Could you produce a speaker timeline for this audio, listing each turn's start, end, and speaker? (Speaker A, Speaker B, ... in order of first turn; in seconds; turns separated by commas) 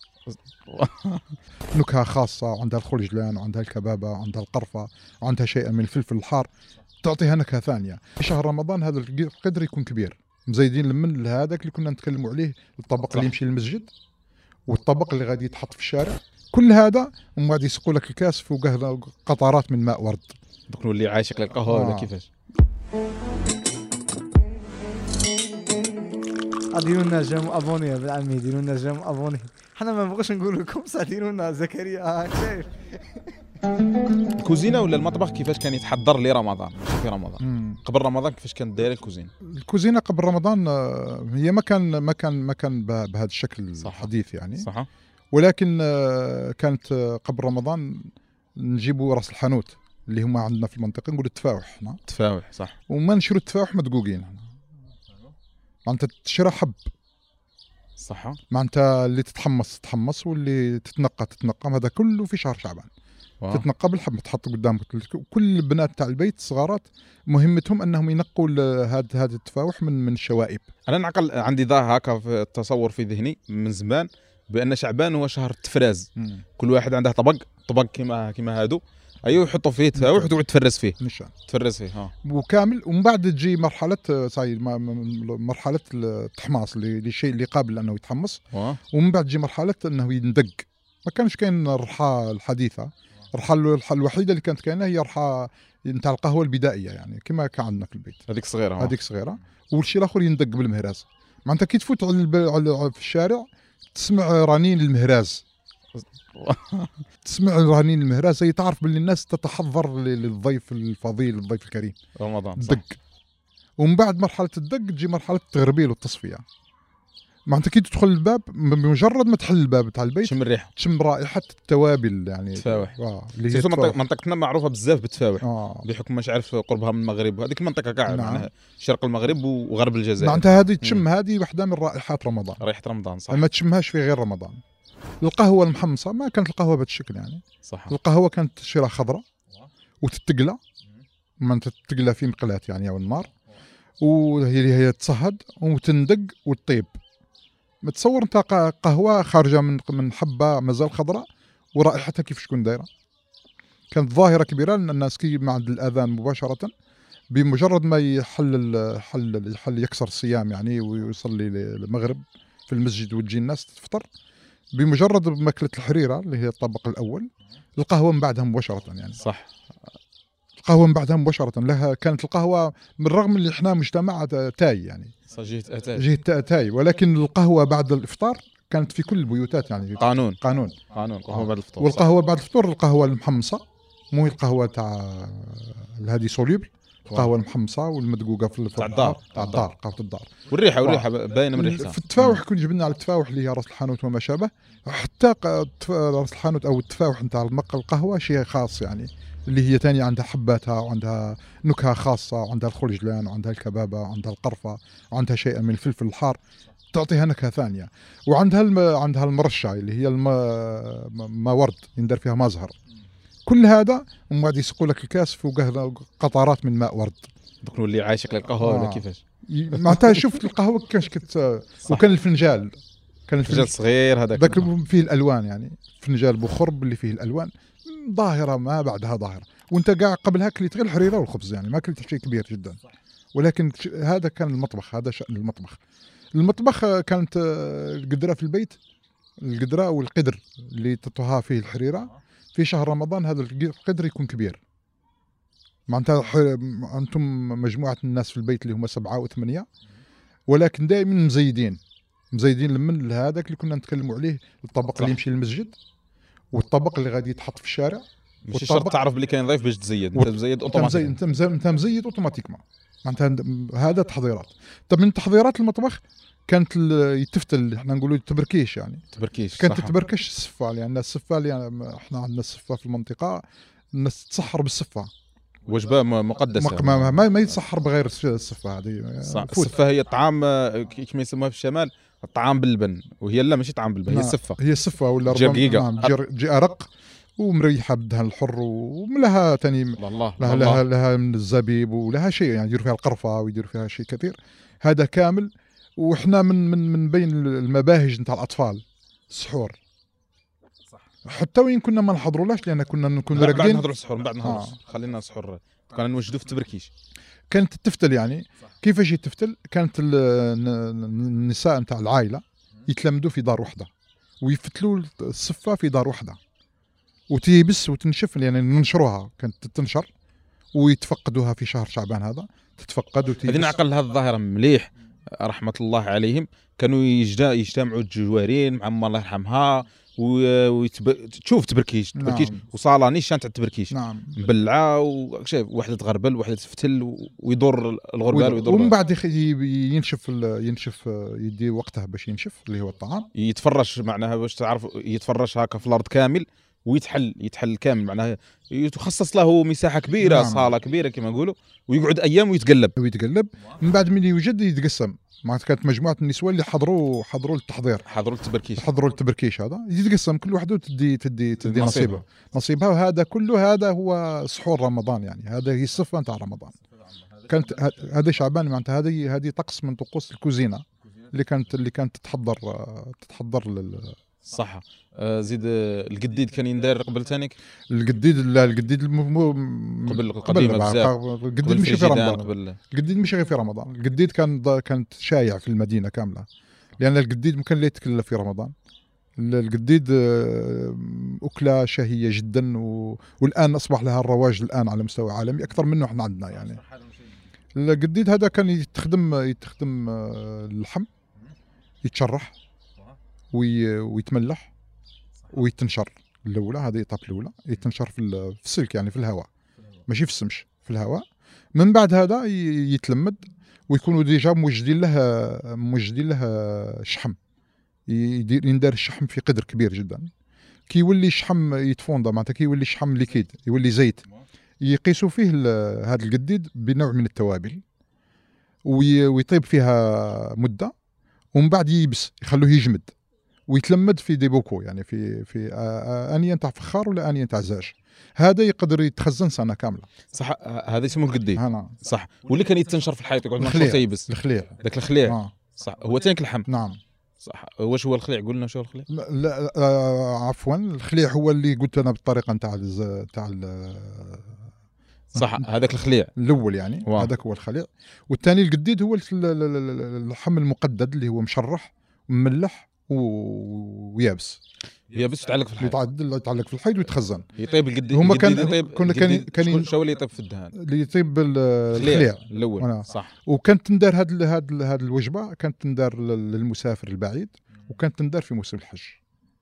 Speaker A: 0.3-1.4, Speaker B: 1.7-6.5, Speaker B: 7.0-13.9, Speaker B: 14.7-20.4, Speaker A: 20.7-22.3, Speaker B: 21.7-22.1, Speaker C: 26.7-33.3, Speaker A: 34.4-39.3, Speaker B: 37.4-37.8, Speaker B: 39.4-44.7, Speaker A: 43.8-44.9, Speaker B: 45.3-52.0, Speaker A: 52.1-52.8, Speaker B: 52.9-54.5, Speaker B: 55.9-56.8, Speaker A: 58.0-58.4, Speaker B: 58.5-62.9, Speaker B: 63.5-70.7, Speaker A: 70.9-82.1, Speaker B: 76.2-76.4, Speaker B: 80.0-80.4, Speaker B: 81.0-81.3, Speaker B: 82.2-98.3, Speaker A: 88.5-88.8, Speaker A: 98.3-99.0, Speaker B: 98.8-105.4, Speaker A: 106.0-107.0, Speaker B: 107.2-112.0, Speaker A: 112.2-112.8, Speaker B: 112.6-113.0, Speaker B: 113.8-116.4, Speaker B: 117.5-124.0, Speaker A: 120.2-120.7, Speaker A: 122.6-122.9, Speaker A: 123.5-131.1, Speaker B: 125.4-125.8, Speaker B: 128.1-128.5, Speaker B: 130.2-132.6, Speaker A: 132.6-133.5, Speaker B: 133.3-134.6, Speaker B: 135.2-139.2, Speaker A: 137.7-137.9, Speaker B: 140.0-140.6, Speaker B: 141.4-143.3, Speaker B: 144.0-146.9, Speaker B: 147.8-152.9, Speaker B: 153.9-156.7, Speaker B: 157.3-164.1, Speaker B: 164.8-169.2, Speaker A: 169.2-169.5, Speaker B: 170.6-175.1, Speaker A: 175.3-176.1, Speaker B: 175.9-180.8, Speaker A: 180.0-182.1, Speaker B: 181.3-183.6, Speaker B: 184.1-206.4, Speaker A: 188.8-189.7, Speaker A: 190.5-192.4, Speaker B: 206.9-212.7, Speaker B: 213.5-217.3, Speaker A: 217.6-220.3, Speaker B: 218.6-223.7, Speaker A: 223.5-224.7, Speaker B: 224.3-232.8, Speaker B: 233.3-235.8, Speaker B: 236.3-238.8, Speaker B: 239.4-244.6, Speaker B: 245.9-249.7, Speaker B: 250.5-251.8, Speaker B: 252.3-255.8, Speaker B: 256.5-258.9, Speaker A: 258.5-261.2, Speaker B: 260.2-269.1, Speaker A: 269.1-270.0, Speaker B: 269.6-273.4, Speaker B: 273.9-275.1, Speaker A: 275.7-277.4, Speaker B: 276.5-279.7, Speaker A: 279.2-284.6, Speaker B: 284.1-299.8, Speaker A: 285.3-286.1, Speaker A: 290.0-290.8, Speaker B: 301.2-303.9, Speaker A: 303.3-306.9, Speaker B: 304.4-304.8, Speaker B: 307.5-313.9, Speaker B: 314.4-316.4, Speaker B: 317.3-320.1, Speaker B: 320.7-323.8, Speaker A: 323.4-339.0, Speaker B: 332.2-332.6, Speaker B: 333.9-334.4, Speaker B: 338.3-343.3, Speaker A: 343.3-352.9, Speaker B: 350.2-350.7, Speaker B: 353.0-358.1, Speaker A: 358.1-358.9, Speaker B: 358.8-366.8, Speaker A: 361.6-362.2, Speaker B: 367.5-374.2, Speaker A: 374.5-377.6, Speaker B: 377.9-386.5, Speaker A: 380.1-382.8, Speaker B: 387.0-388.7, Speaker B: 389.4-396.8, Speaker B: 397.8-401.1, Speaker B: 402.0-402.6, Speaker B: 403.5-404.7, Speaker B: 405.5-409.5, Speaker B: 410.1-417.4, Speaker B: 418.1-420.3, Speaker B: 420.9-424.3, Speaker B: 424.8-427.8, Speaker B: 428.9-430.9, Speaker B: 431.5-433.1, Speaker B: 433.7-440.1, Speaker A: 440.3-446.7, Speaker B: 441.6-442.0, Speaker B: 443.6-445.5, Speaker B: 446.7-447.0, Speaker A: 447.4-449.1, Speaker B: 449.1-454.6, Speaker A: 455.3-456.3, Speaker B: 455.4-455.6, Speaker B: 456.4-464.6, Speaker A: 457.1-457.3, Speaker A: 465.1-466.0, Speaker B: 465.8-467.5, Speaker A: 467.6-470.8, Speaker B: 468.1-469.9, Speaker B: 470.8-479.2, Speaker A: 471.9-473.3